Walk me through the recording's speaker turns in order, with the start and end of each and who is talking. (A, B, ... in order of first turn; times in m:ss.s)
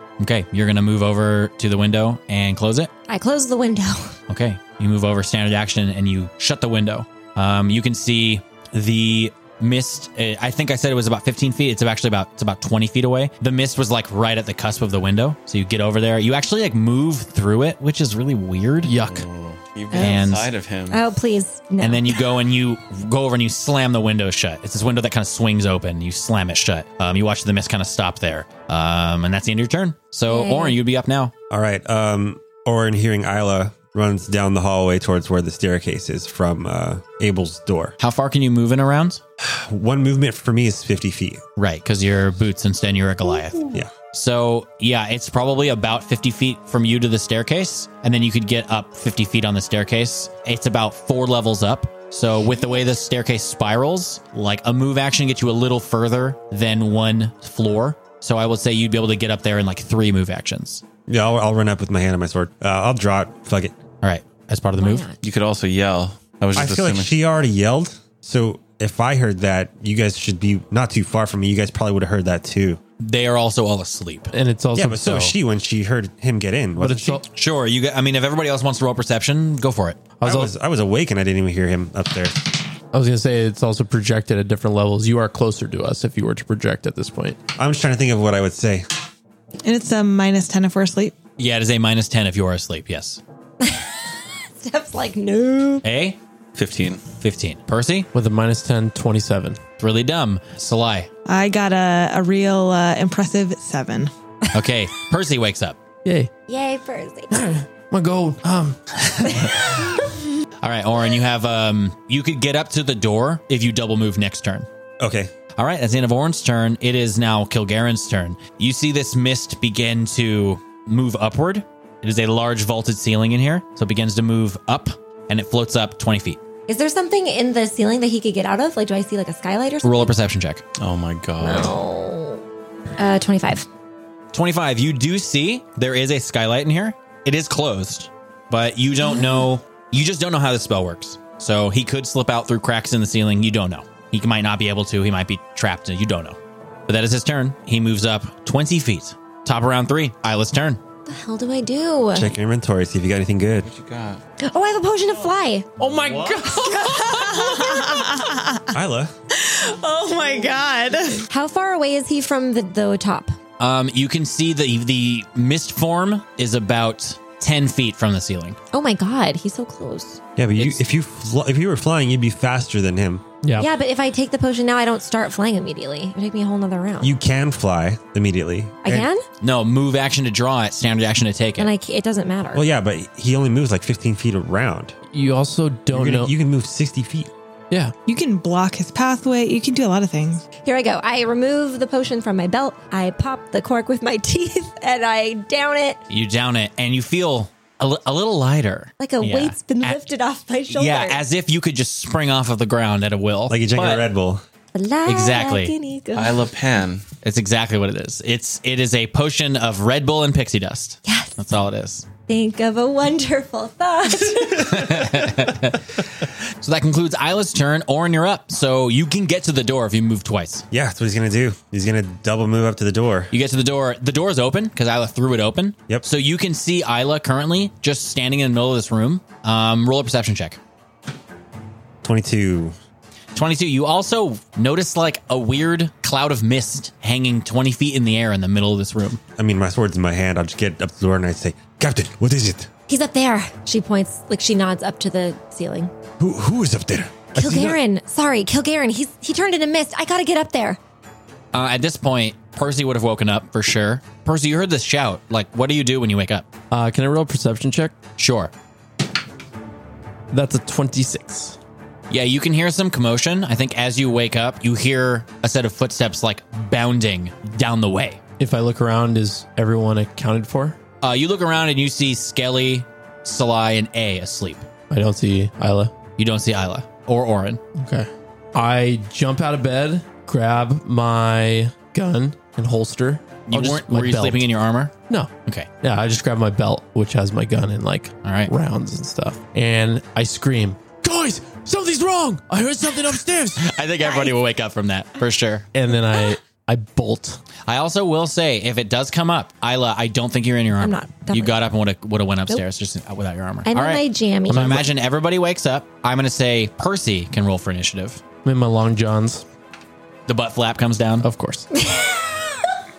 0:00.2-0:02.9 A
0:03.1-0:04.1 B
0:04.3-0:18.9 A
0:18.8-0:19.2 C
0:19.0-0:21.1 D
0:19.9-0:20.3 B
0:19.9-0:20.5 A
0:20.9-0:22.2 B
0:21.8-0:31.3 A
0:30.3-0:30.8 B
0:31.5-0:38.0 E
0:38.0-0:39.2 A
0:39.4-0:41.4 E
0:41.6-1:00.8 A
1:01.1-1:03.8 E
1:04.0-1:05.1 A
1:04.8-1:05.2 B
1:05.2-1:07.1 D
1:06.6-1:12.8 E
1:13.0-1:14.3 A
1:14.3-1:15.3 C
1:14.8-1:17.2 E
1:16.8-1:17.2 C
1:17.3-1:20.0 A
1:20.2-1:20.5 C
1:20.2-1:22.6 E
1:22.9-1:27.4 C
1:27.6-1:28.9 E
1:29.6-1:31.2 F
1:31.4-1:33.2 A
1:33.6-1:35.8 B
1:35.8-1:36.2 A
1:36.6-1:37.0 D
1:37.2-1:38.1 A
1:38.1-1:39.6 C
1:39.8-1:41.1 A
1:41.3-1:44.1 F
1:44.5-1:45.8 A
1:46.0-1:46.3 C
1:46.5-1:47.5 B
1:47.3-1:49.7 C
1:49.0-1:49.9 A
1:50.6-1:54.7 A
1:55.0-1:55.3 E
1:55.6-2:06.4 A
2:06.7-2:10.1 B
2:09.8-2:10.6 A
2:10.8-2:11.8 D
2:11.4-2:12.4 B
2:13.0-2:13.7 B
2:14.3-2:30.8 A
2:19.1-2:19.4 B
2:31.1-2:32.3 B
2:32.1-2:33.7 E
2:33.6-2:34.2 D
2:34.4-2:35.7 B
2:35.8-2:37.8 C
2:36.9-2:38.7 F
2:38.7-2:39.1 E
2:39.3-2:41.2 F
2:41.3-2:43.4 B
2:43.6-2:48.6 A
2:48.7-2:50.2 B
2:50.4-2:53.2 E
2:53.4-2:53.7 C
2:53.6-2:57.1 B
2:57.0-2:59.1 E
2:58.8-2:59.2 B
2:59.4-3:01.7 A
3:01.6-3:02.6 B
3:02.5-3:05.0 E
3:05.1-3:06.3 C
3:05.9-3:07.3 E
3:08.1-3:10.4 F
3:10.6-3:16.0 B
3:16.1-3:20.0 A
3:19.0-3:21.2 B
3:20.7-3:24.1 A
3:23.5-3:24.4 E
3:24.7-3:26.4 B
3:25.1-3:25.8 A
3:26.2-3:27.1 D
3:27.2-3:32.1 A
3:31.1-3:31.4 B
3:32.3-3:35.1 B
3:34.6-3:40.7 A
3:40.7-3:43.3 E
3:43.3-3:50.6 A
3:52.0-3:52.8 E
3:53.4-3:59.2 A
3:59.4-4:02.7 E
4:02.9-4:05.9 B
4:06.2-4:07.8 E
4:07.4-4:10.8 B
4:11.5-4:16.5 A
4:16.7-4:18.0 C
4:18.2-4:18.5 A
4:20.3-4:21.6 C
4:22.1-4:28.2 A
4:28.4-4:30.8 C
4:31.0-4:34.6 A
4:34.9-4:35.9 C
4:36.2-4:37.6 A
4:37.8-4:44.4 C
4:43.5-4:44.9 A
4:45.8-4:53.7 C
4:48.2-4:48.5 A
4:53.6-4:55.7 A
4:55.8-4:57.4 C
4:57.7-5:08.2 A
5:00.8-5:01.6 B
5:03.7-5:04.8 B
5:04.5-5:04.9 C
5:08.4-5:09.4 C
5:10.3-5:11.3 A
5:11.2-5:11.7 C
5:11.7-5:12.6 B